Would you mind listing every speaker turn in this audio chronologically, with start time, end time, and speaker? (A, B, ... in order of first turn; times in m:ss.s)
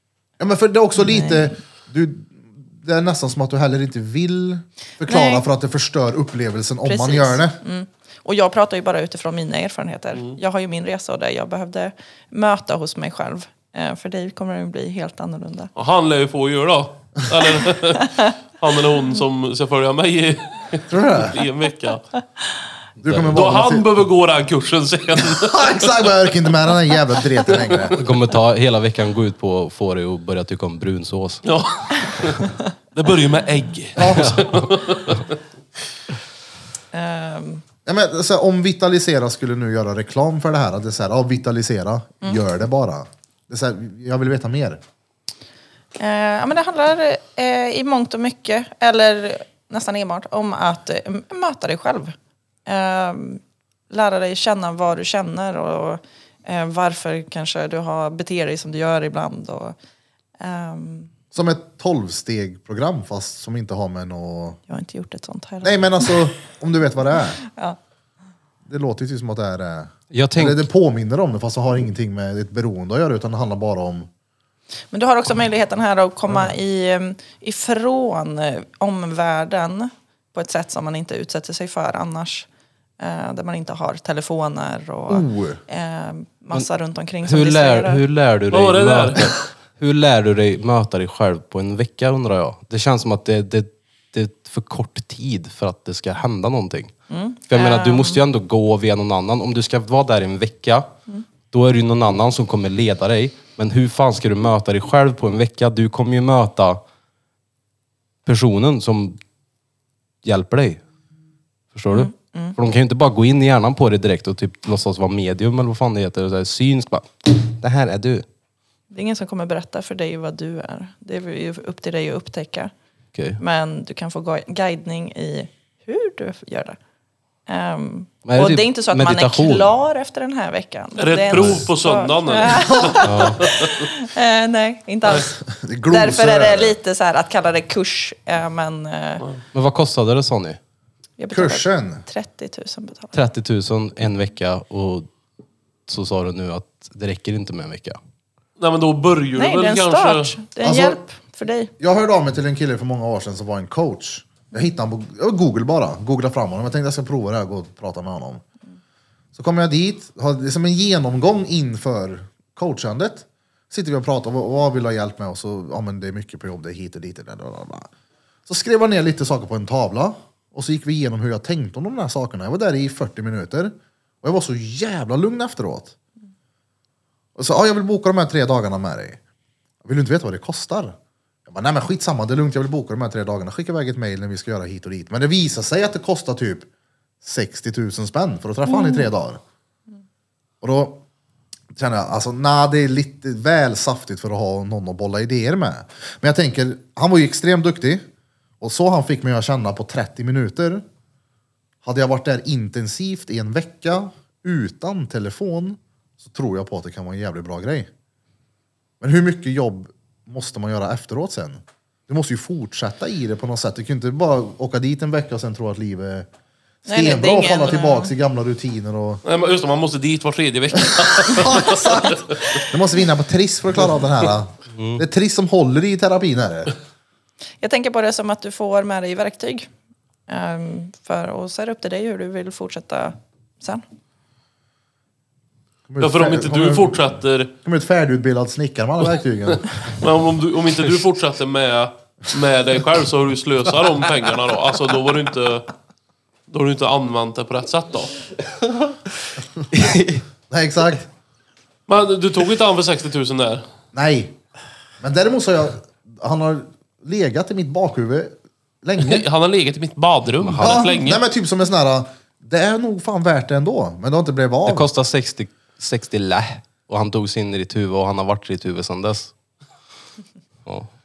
0:00.4-0:07.6 A
0:01.0-0:01.5 B
0:05.1-0:05.4 B
0:06.8-0:15.7 B
0:10.1-0:10.4 C
0:15.8-0:22.0 C
0:20.9-0:21.4 A
0:23.0-0:23.9 A
0:23.3-0:26.0 C
0:25.2-0:28.0 A
0:28.0-0:31.4 D
0:31.4-0:35.4 C
0:34.0-0:34.5 A
0:34.1-0:34.6 D
0:36.9-0:37.6 B
0:37.9-0:44.8 A
0:46.0-0:52.1 B
0:52.6-0:59.8 B
1:00.4-1:01.1 B
1:01.3-1:04.6 A
1:04.7-1:06.1 B
1:05.6-1:07.4 A
1:07.5-1:07.8 B
1:08.6-1:14.1 A
1:10.1-1:10.6 D
1:14.9-1:22.5 B
1:23.0-1:28.0 B
1:25.1-1:25.6 A
1:27.2-1:36.9 D
1:28.5-1:29.4 C
1:37.1-1:38.2 B
1:37.5-1:40.9 D
1:41.5-1:46.8 D
1:48.2-1:49.2 D
1:50.2-1:50.8 D
1:51.7-1:58.3 D
1:51.9-1:52.6 B
1:58.9-2:02.7 B
2:03.1-2:03.4 D
2:03.4-2:06.8 B
2:07.5-2:19.2 B
2:08.2-2:09.7 D
2:11.0-2:13.7 C
2:11.4-2:11.7 D
2:13.0-2:13.4 D
2:15.5-2:16.8 A
2:19.5-2:20.6 D
2:21.2-2:23.2 B
2:21.3-2:22.0 A
2:23.1-2:25.1 D
2:25.9-2:28.0 D
2:28.6-2:30.4 C
2:29.4-2:31.7 B
2:30.6-2:31.0 A
2:31.8-2:38.4 A
2:39.4-2:47.9 A
2:48.5-2:55.9 A
2:57.4-2:59.2 A
2:59.8-3:00.9 A
3:01.5-3:06.7 A
3:07.2-3:09.4 A
3:08.7-3:09.1 B
3:10.6-3:11.0 A
3:11.8-3:18.0 A
3:18.6-3:20.8 A
3:21.8-3:27.9 A
3:29.0-3:36.3 A
3:36.8-3:39.2 A
3:36.9-3:38.1 B
3:39.2-3:42.2 C
3:40.9-3:46.7 A
3:47.6-3:49.7 B
3:50.3-3:53.8 B
3:55.9-3:59.6 A
3:56.0-3:57.5 C
3:59.9-4:05.7 C
4:06.5-4:08.2 C
4:09.7-4:10.2 D
4:10.5-4:11.1 A
4:11.9-4:13.6 C
4:13.9-4:14.4 A
4:15.0-4:19.2 A
4:19.0-4:21.2 C
4:20.4-4:20.9 D
4:20.6-4:24.9 A
4:24.6-4:29.3 D